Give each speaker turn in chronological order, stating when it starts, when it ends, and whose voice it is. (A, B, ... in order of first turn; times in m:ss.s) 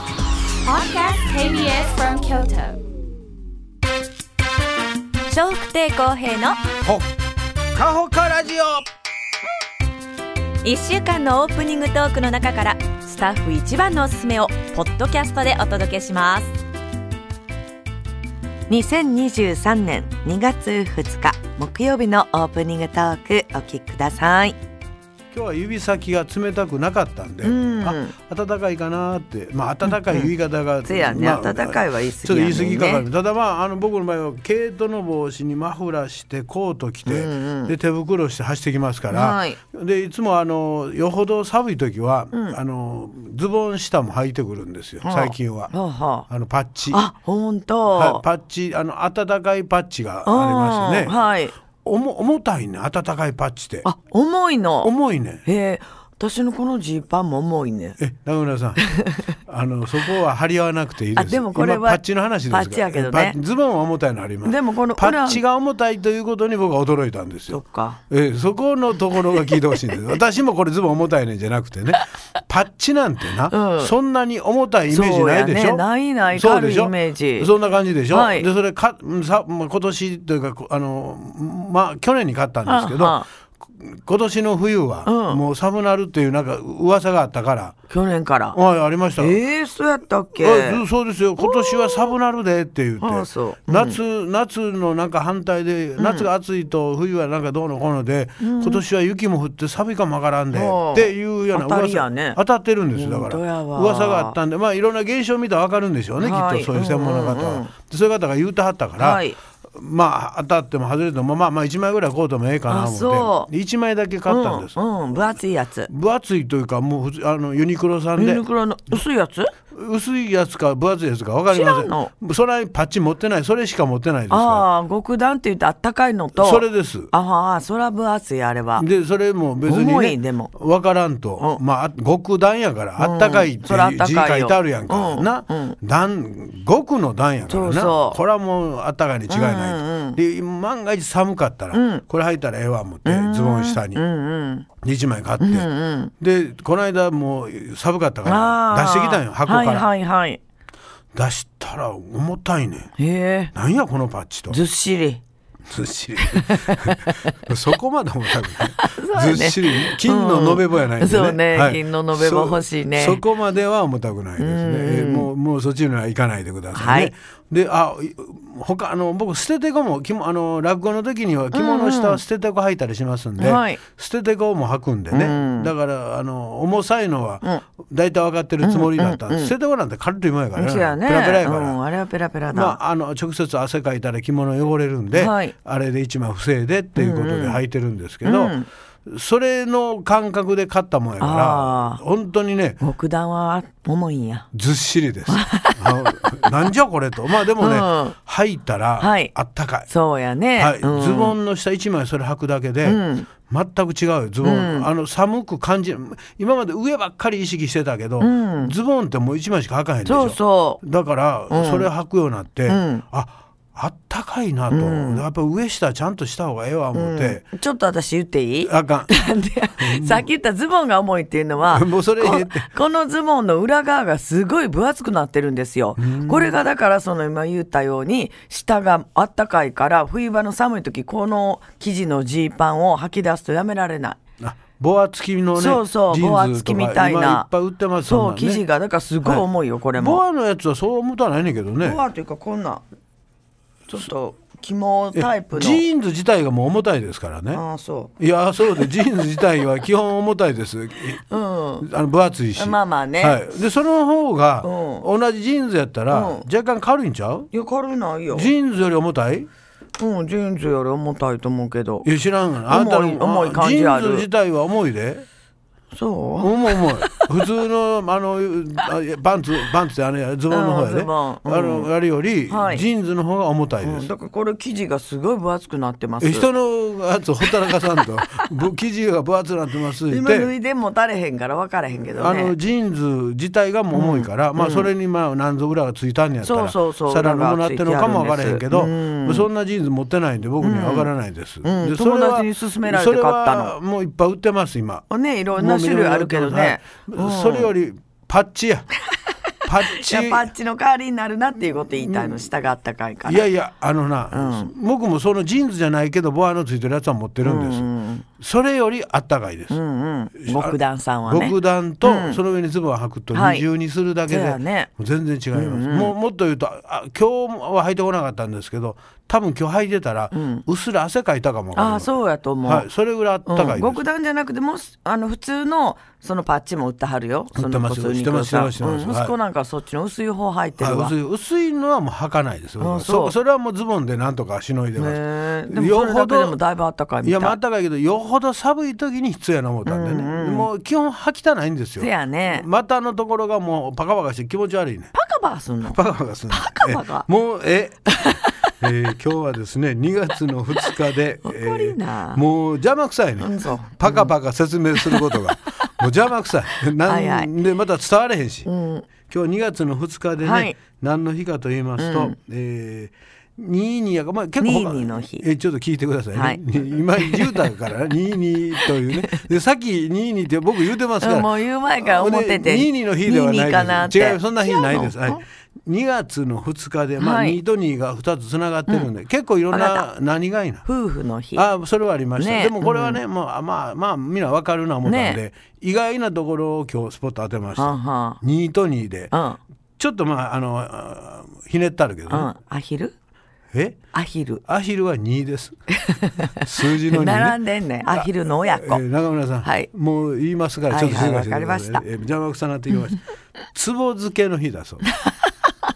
0:00.6-0:02.8 A
0:05.3-0:06.6 B
0:07.7-0:08.9 C
0:10.6-0:16.5 B
0:18.7-0:24.6 D
0:25.3-0:45.7 C
0:27.4-0:28.1 D
0:29.9-0:30.3 D
0:30.8-0:33.1 D
0:37.1-0:37.7 D
0:39.1-0:39.6 D
0:42.3-0:42.6 D
0:45.0-0:46.3 D
0:46.3-0:47.0 C
0:46.9-0:48.2 D
0:47.9-0:51.2 C
0:50.3-0:51.6 D
0:51.8-0:53.9 C
0:53.8-0:54.9 D
0:54.8-0:55.4 C
0:55.4-0:58.0 D
0:58.0-1:23.2 C
0:58.8-0:59.2 D
1:01.2-1:03.4 D
1:04.4-1:05.4 D
1:07.5-1:08.0 D
1:13.5-1:13.9 D
1:14.9-1:17.5 D
1:18.1-1:18.5 D
1:22.7-1:23.3 D
1:23.8-1:27.8 C
1:25.0-1:25.4 D
1:27.9-1:28.6 D
1:28.5-1:29.4 C
1:29.2-1:30.8 D
1:30.4-1:55.4 C
1:31.4-1:32.1 D
1:33.0-1:34.0 D
1:36.0-1:36.3 D
1:38.4-1:38.8 D
1:40.5-1:42.4 D
1:42.9-1:44.4 D
1:46.2-1:47.7 D
1:49.0-1:49.4 D
1:52.7-1:53.5 D
1:54.3-1:55.9 D
1:55.9-1:59.0 C
1:58.2-1:59.5 D
1:59.7-2:04.7 C
2:01.5-2:02.1 D
2:04.3-2:08.9 D
2:06.4-2:07.1 C
2:08.8-2:24.0 C
2:09.7-2:10.5 D
2:13.0-2:15.8 D
2:17.5-2:18.2 D
2:19.3-2:20.2 D
2:21.7-2:22.0 D
2:23.0-2:24.7 D
2:24.8-2:25.7 C
2:25.4-2:26.1 D
2:26.2-2:29.9 C
2:28.2-2:30.4 D
2:31.2-2:32.9 C
2:33.0-2:33.5 D
2:33.5-2:34.6 C
2:34.5-2:35.2 D
2:35.7-3:01.8 C
2:36.2-2:37.4 D
2:38.4-2:43.2 D
2:44.4-2:45.3 D
2:46.7-2:47.1 D
2:51.5-2:52.2 D
2:53.4-2:53.8 D
2:55.1-2:55.7 D
2:58.6-2:59.5 D
3:00.6-3:02.8 D
3:02.5-3:12.8 C
3:05.1-3:05.5 D
3:07.0-3:07.6 D
3:08.2-3:08.7 D
3:11.2-3:12.0 D
3:12.8-3:14.5 D
3:14.5-3:19.9 C
3:15.3-3:16.7 D
3:17.6-3:18.2 D
3:19.0-3:19.3 D
3:19.9-3:21.4 D
3:20.6-3:37.4 C
3:22.8-3:23.3 D
3:24.4-3:24.9 D
3:28.2-3:28.8 D
3:30.0-3:30.8 D
3:31.5-3:31.9 D
3:32.7-3:33.0 D
3:34.7-3:35.2 D
3:36.9-3:54.2 D
3:38.7-3:39.1 C
3:39.8-3:40.3 C
3:41.6-3:42.7 C
3:46.0-3:46.6 C
3:54.4-3:58.6 C
3:55.6-3:57.5 D
3:58.0-4:00.2 D
3:59.2-4:02.0 C
4:01.8-4:02.8 D
4:03.9-4:05.8 D
4:05.1-4:07.6 C
4:07.5-4:08.1 D
4:08.2-4:11.2 C
4:11.3-4:11.9 D
4:11.8-4:17.5 C
4:12.6-4:13.4 D
4:14.6-4:15.1 D
4:16.1-4:16.5 D
4:17.5-4:18.5 D
4:18.3-4:19.5 C
4:20.0-4:22.1 D
4:22.0-4:25.3 C
4:22.7-4:24.3 D
4:25.9-4:27.3 D
4:26.4-4:34.1 C
4:30.5-4:31.9 D
4:32.5-4:32.9 D
4:33.8-4:36.5 D
4:36.2-4:40.5 C
4:37.5-4:38.2 D
4:40.1-4:42.6 D
4:42.1-4:58.9 C
4:43.9-4:44.9 D
4:46.4-4:49.5 D
4:50.6-4:51.1 D
4:51.6-4:53.8 D
4:55.1-4:57.7 D
4:59.6-5:00.5 C
4:59.9-5:03.4 D
5:01.7-5:02.5 C
5:03.2-5:09.8 C
5:04.3-5:04.7 D
5:07.4-5:08.3 D
5:09.7-5:12.4 D
5:10.4-5:22.1 C
5:13.3-5:13.7 D
5:14.3-5:14.9 D
5:15.5-5:16.2 D
5:20.3-5:20.6 D
5:21.8-5:22.9 D
5:22.6-5:24.0 C
5:23.5-5:31.2 D
5:27.6-5:29.4 C
5:30.8-5:36.6 C
5:32.8-5:33.4 D
5:35.0-5:37.6 D
5:37.2-5:45.1 C
5:39.9-5:40.7 D
5:42.0-5:42.7 D
5:45.1-5:47.3 D
5:45.8-5:58.7 C
5:48.1-5:48.8 D
5:50.8-5:52.4 D
5:53.4-5:54.3 D
5:55.0-5:56.0 D
5:57.0-5:57.5 D
5:58.7-5:59.1 D
5:59.2-6:20.9 C
6:00.4-6:00.8 D
6:02.0-6:02.4 D
6:04.6-6:05.5 D
6:06.3-6:06.6 D
6:07.1-6:07.7 D
6:08.8-6:09.4 D
6:11.2-6:15.4 D
6:17.2-6:17.6 D
6:19.7-6:20.1 D
6:20.8-6:21.7 D
6:21.6-6:29.3 C
6:22.4-6:23.2 D
6:25.0-6:25.4 D
6:27.8-6:28.4 D
6:29.3-6:29.6 D
6:30.0-6:32.5 C
6:32.3-6:33.1 D
6:33.7-6:34.0 C
6:34.1-6:34.6 D
6:34.7-6:43.2 C
6:35.9-6:39.0 D
6:39.6-6:39.9 D
6:40.9-6:42.1 D
6:43.7-6:45.0 C
6:45.0-6:45.5 D